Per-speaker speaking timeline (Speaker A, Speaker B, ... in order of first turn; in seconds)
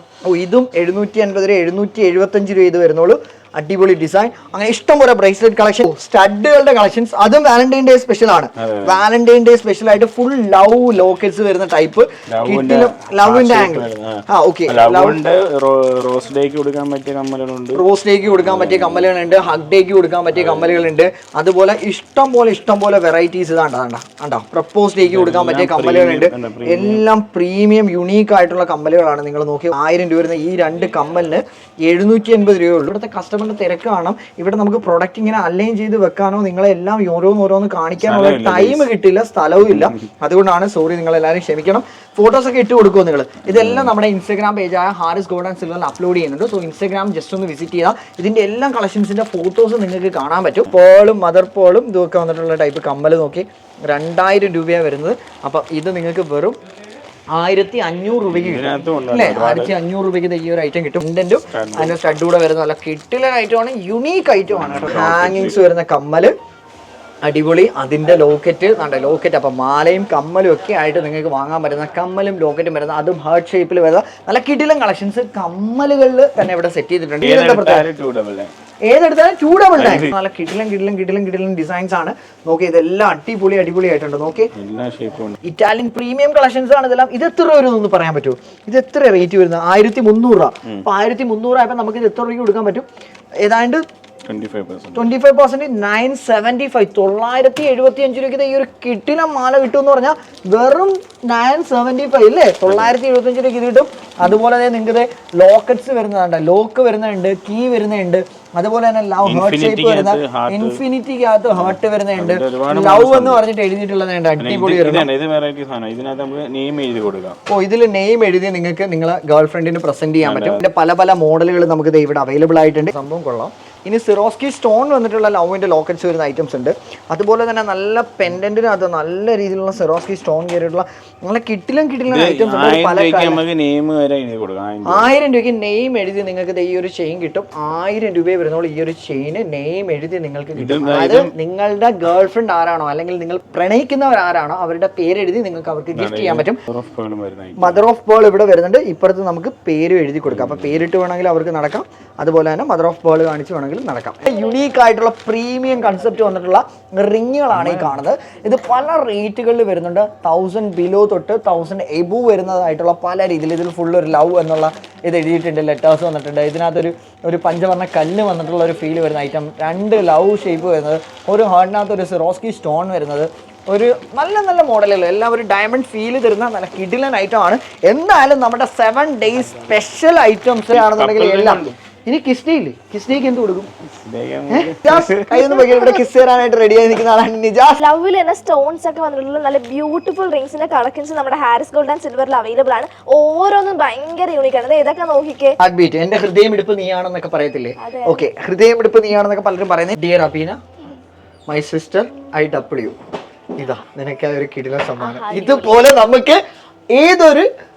Speaker A: 0.2-15.2, 17.7-56.6, 57.3-66.3, 67.2-77.9, 78.8-84.5, 85.4-92.8, 93.4-93.8, 95.0-115.1, 117.5-133.4, 134.9-146.6, 147.6-183.7, 184.5-187.8, 195.6-200.6, 201.5-203.0, 203.6-206.4, 206.9-207.5
Speaker B: 8.6-9.0, 12.3-17.8, 18.4-19.1, 20.3-20.9, 25.0-27.1, 38.0-38.9, 39.6-40.0, 43.5-43.9, 58.3-59.8, 61.5-62.0, 64.5-65.6, 77.2-78.5, 79.8-80.1, 84.5-85.4, 94.3-95.1, 102.7-103.0, 109.2-110.8, 111.5-113.4, 114.4-117.4, 120.2-120.6, 132.1-135.1, 140.6-141.3, 145.9-147.8, 150.3-150.8, 157.5-157.9, 180.7-181.8, 183.9-185.6
Speaker C: 185.4-186.1, 187.8-195.6, 197.8-198.2, 205.0-206.0